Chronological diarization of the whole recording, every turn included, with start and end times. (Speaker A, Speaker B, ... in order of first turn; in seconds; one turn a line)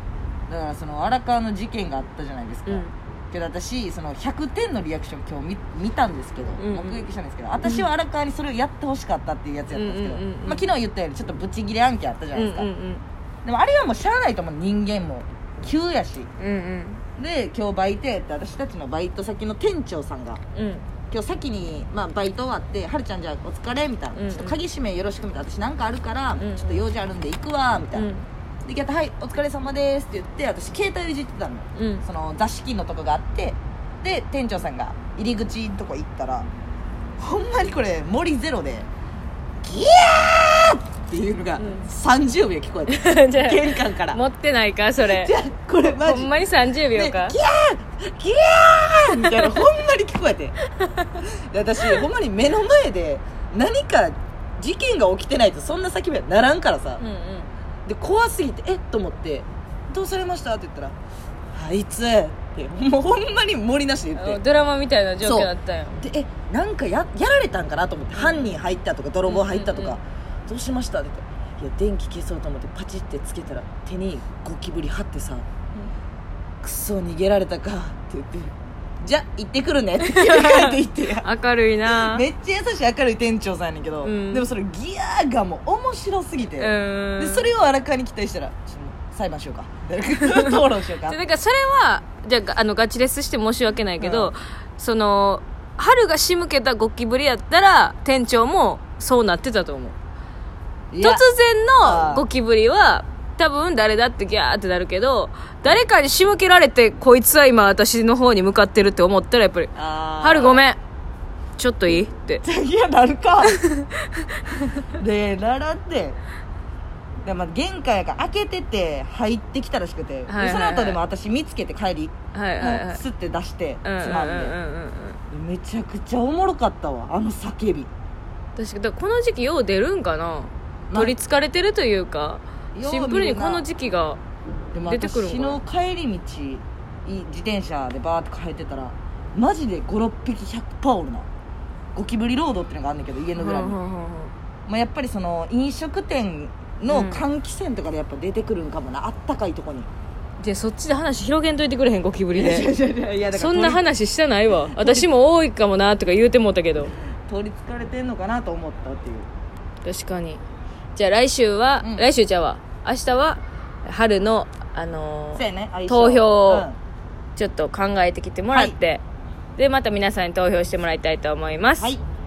Speaker A: 0.5-12.7
Speaker B: 6.6-7.0
Speaker B: 9.7-10.7
Speaker B: 12.3-13.0
Speaker A: 13.4-16.3
Speaker B: 16.4-17.0
Speaker A: 17.2-20.4
Speaker B: 20.6-20.9
Speaker A: 21.1-28.1
Speaker B: 24.1-24.6
Speaker B: 26.4-26.8
Speaker B: 27.9-28.2
Speaker A: 28.6-36.5
Speaker B: 31.8-32.0
Speaker A: 37.2-38.9
Speaker A: 39.6-44.2
Speaker B: 41.6-41.9
Speaker B: 42.9-45.3
Speaker A: 45.0-46.4
Speaker B: 45.9-47.4
Speaker A: 46.9-50.6
Speaker B: 49.1-49.6
Speaker B: 50.8-51.1
Speaker A: 51.2-57.0
Speaker B: 57.0-57.5
Speaker A: 57.9-61.0
Speaker A: 61.5-64.4
Speaker B: 64.2-66.0
Speaker A: 65.2-75.5
Speaker B: 68.2-68.5
Speaker B: 69.3-70.0
Speaker A: 76.6-81.3
Speaker B: 80.0-82.2
Speaker A: 81.9-91.2
Speaker B: 84.0-84.5
Speaker B: 86.6-87.5
Speaker B: 91.1-100.0
Speaker A: 94.0-94.3
Speaker A: 100.9-101.2
Speaker B: 101.0-110.8
Speaker A: 101.8-102.3
Speaker A: 109.8-110.6
Speaker B: 111.6-112.4
Speaker A: 112.4-113.6
Speaker B: 113.5-114.3
Speaker A: 114.9-116.2
Speaker A: 117.2-124.6
Speaker B: 120.3-121.0
Speaker B: 122.3-123.0
Speaker B: 123.8-125.2
Speaker A: 125.3-127.9
Speaker B: 128.6-134.2
Speaker A: 130.9-131.2
Speaker A: 132.8-133.7
Speaker A: 134.7-141.3
Speaker B: 134.9-135.6
Speaker A: 141.9-143.8
Speaker B: 143.4-144.3
Speaker A: 144.7-149.9
Speaker B: 146.9-147.2
Speaker B: 150.4-152.7
Speaker A: 152.3-153.8
Speaker B: 153.3-156.9
Speaker A: 154.7-155.1
Speaker A: 157.3-159.3
Speaker B: 159.8-160.4
Speaker B: 161.0-166.7
Speaker A: 165.3-166.8
Speaker B: 167.4-169.0
Speaker A: 168.5-168.8
Speaker B: 169.6-171.9